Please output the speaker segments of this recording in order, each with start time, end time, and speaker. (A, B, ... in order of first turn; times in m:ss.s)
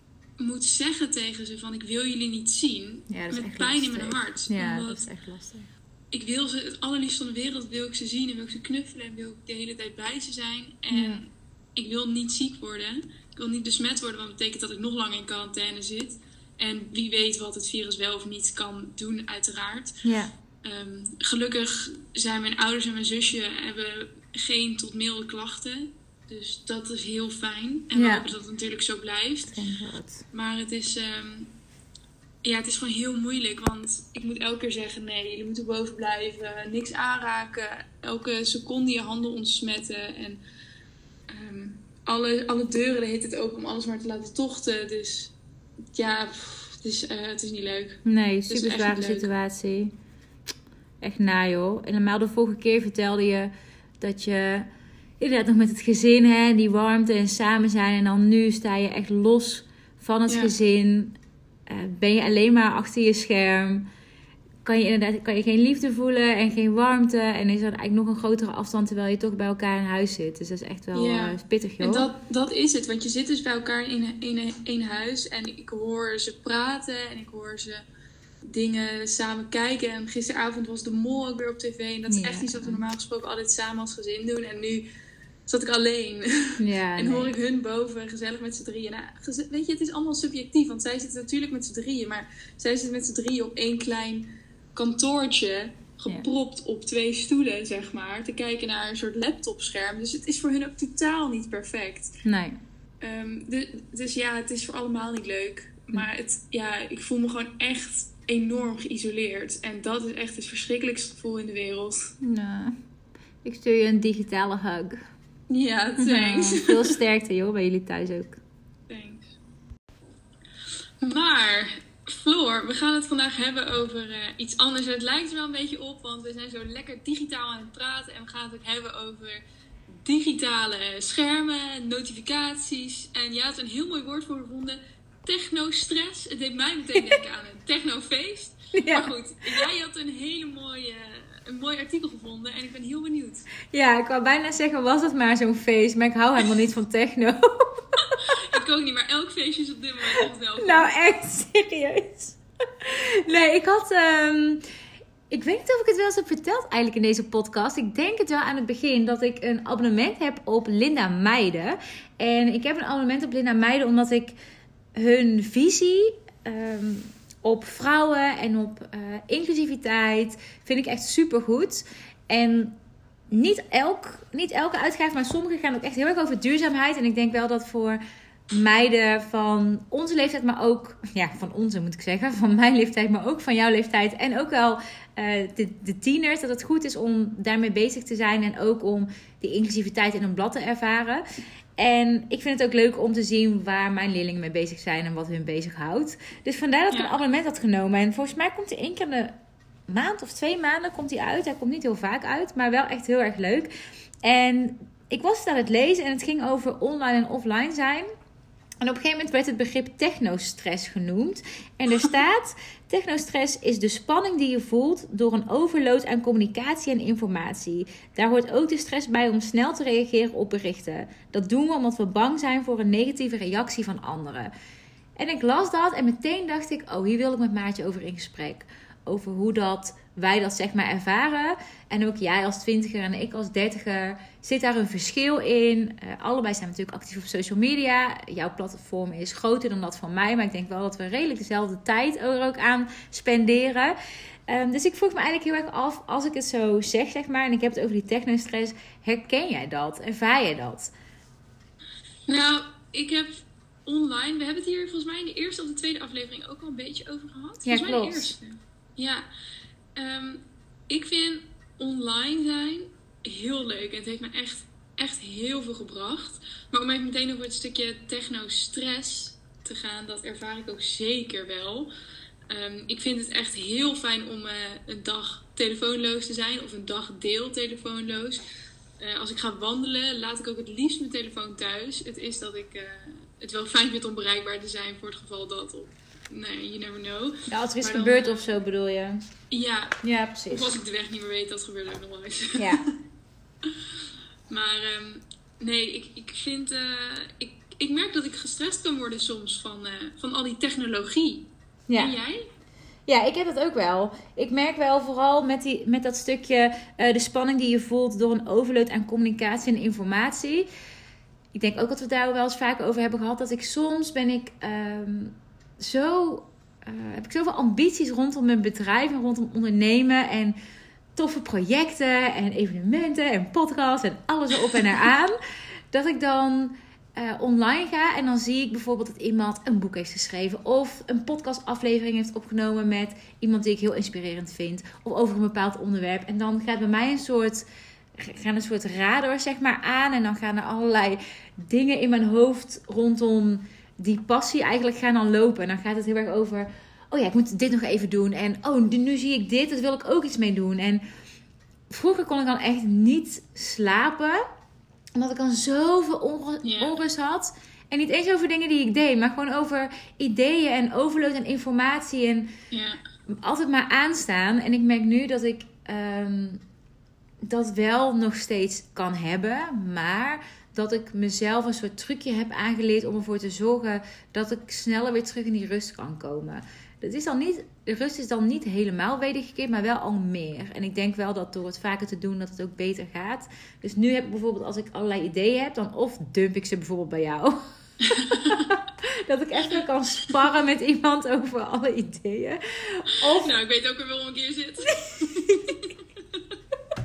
0:00.4-0:05.1 A
0:03.1-0:05.7 B
0:06.1-0:20.0 A
0:10.9-0:11.2 B
0:20.0-0:20.3 B
0:20.6-0:29.6 A
0:27.9-0:28.3 B
0:29.5-0:30.2 B
0:30.3-0:31.5 A
0:32.4-0:40.4 A
0:41.3-0:45.3 A
0:45.9-0:49.3 A
0:48.0-0:49.9 B
0:51.0-0:54.7 B
0:55.2-1:01.2 B
1:00.3-1:00.5 A
1:01.7-1:03.9 B
1:04.6-1:12.1 B
1:10.9-1:17.8 A
1:18.4-1:24.8 A
1:22.1-1:22.8 B
1:25.5-1:42.2 A
1:26.6-1:27.3 B
1:42.2-1:42.6 B
1:43.0-1:52.1 A
1:52.2-1:52.7 B
1:53.4-1:55.0 B
1:55.5-1:57.0 A
1:56.0-1:58.4 B
1:58.9-1:59.4 A
2:01.0-2:09.4 A
2:10.0-2:23.5 A
2:18.7-2:19.6 B
2:23.7-2:28.4 B
2:28.0-2:30.9 A
2:30.6-2:34.6 B
2:35.3-2:44.3 B
2:44.9-2:52.8 B
2:53.3-3:11.2 B
3:11.8-3:19.3 B
3:19.9-3:23.7 B
3:24.2-3:28.1 B
3:28.8-3:44.5 B
3:45.2-4:04.0 B
4:04.5-4:10.9 B
4:12.3-4:19.2 A
4:17.6-4:18.4 B
4:20.0-4:31.9 A
4:32.5-4:38.4 A
4:39.0-4:48.5 A
4:47.5-4:49.2 B
4:49.5-4:50.0 A
4:50.0-4:50.8 B
4:50.5-4:52.9 A
4:52.6-4:52.8 B
4:54.5-5:02.5 A
5:01.9-5:02.1 B
5:03.1-5:10.7 B
5:11.5-5:20.6 B
5:21.2-5:25.4 B
5:25.9-5:37.6 B
5:38.2-5:51.0 B
5:51.9-5:54.4 B
5:55.1-6:02.5 B
5:56.6-5:57.0 A
6:02.7-6:03.0 A
6:03.3-6:06.6 B
6:07.4-6:27.6 B
6:28.0-6:28.7 A
6:28.2-6:33.5 B
6:33.2-6:36.4 A
6:35.2-6:35.7 B